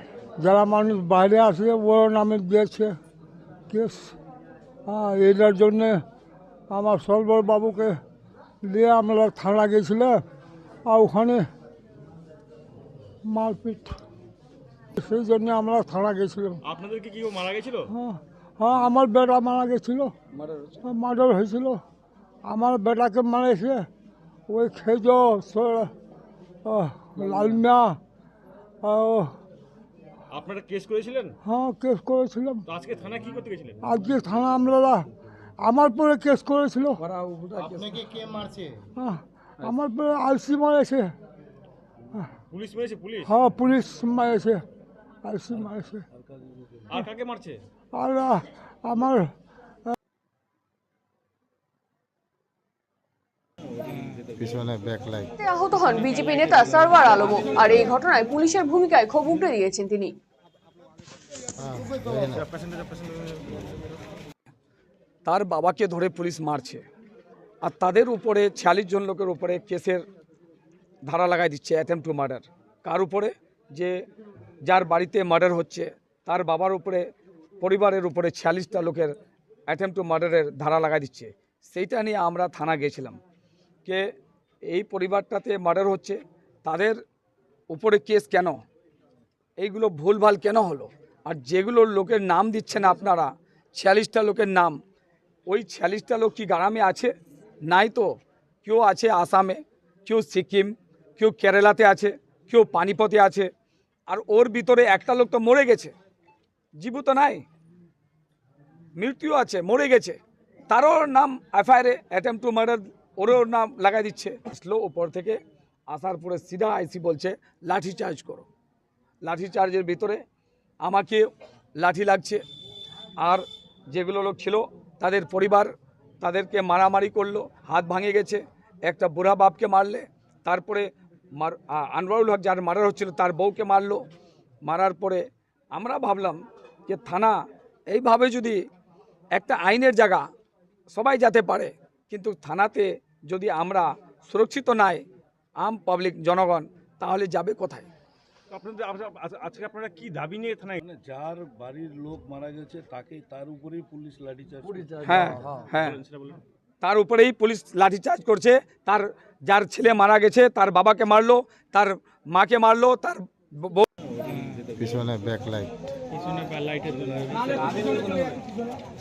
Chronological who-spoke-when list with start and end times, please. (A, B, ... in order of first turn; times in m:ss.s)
0:00.4-0:03.0 A
0:03.7-0:04.2 A
0:04.9-0:06.0 A
0:06.7-0:08.0 A
0:08.6-0:10.2 A
0:10.9-0:11.4 A
0:13.3-0:14.0 A
0:14.9-0:16.6 A
0:16.6-0:17.9 B
0:17.9-0:20.1 A
0:20.3-0:20.8 C
0:20.8-0:21.8 A
0:22.5-0:23.9 A
0:24.5-0:25.9 A
0:26.6-0:28.0 A
0:28.8-0:29.3 A
0:30.3-0:31.4 B
0:31.4-0:32.6 A
0:32.7-0:33.8 B
0:33.8-0:35.1 A
0:35.6-0:37.0 A
0:37.0-0:38.1 C
0:39.0-0:41.1 A
0:42.5-0:43.3 B
0:43.3-0:44.6 A
0:45.3-0:46.0 A
0:45.5-0:47.0 D
0:46.9-0:47.6 B
0:48.0-0:49.3 A
0:54.4-0:55.3 E
0:55.4-1:00.1 F
1:01.6-1:02.4 E
1:02.4-1:02.8 B
1:05.3-1:06.8 C
1:07.6-1:10.0 C
1:11.0-1:13.9 C
1:14.7-1:17.0 C
1:17.6-1:19.2 C
1:19.7-1:23.2 C
1:24.7-1:27.0 C
1:27.7-1:28.6 C
1:29.6-1:34.8 C
1:35.5-1:37.1 C
1:37.7-1:38.1 C
1:38.6-1:43.5 C
1:44.1-1:45.9 C
1:46.8-1:47.4 C
1:49.0-1:55.4 C
1:55.9-1:58.5 C
1:59.2-2:00.2 C
2:00.8-2:01.3 C
2:01.8-2:02.4 C
2:03.2-2:05.7 C
2:06.2-2:14.0 C
2:14.6-2:15.2 C
2:15.7-2:17.4 C
2:17.9-2:18.6 C
2:19.3-2:20.2 C
2:20.9-2:25.0 C
2:25.6-2:27.9 C
2:28.5-2:30.8 B
2:30.8-2:35.7 D
2:34.7-2:36.0 C
2:35.7-2:36.4 B
2:36.8-2:43.9 C
2:44.8-2:45.7 E
2:46.2-2:48.1 B
2:47.5-2:48.4 C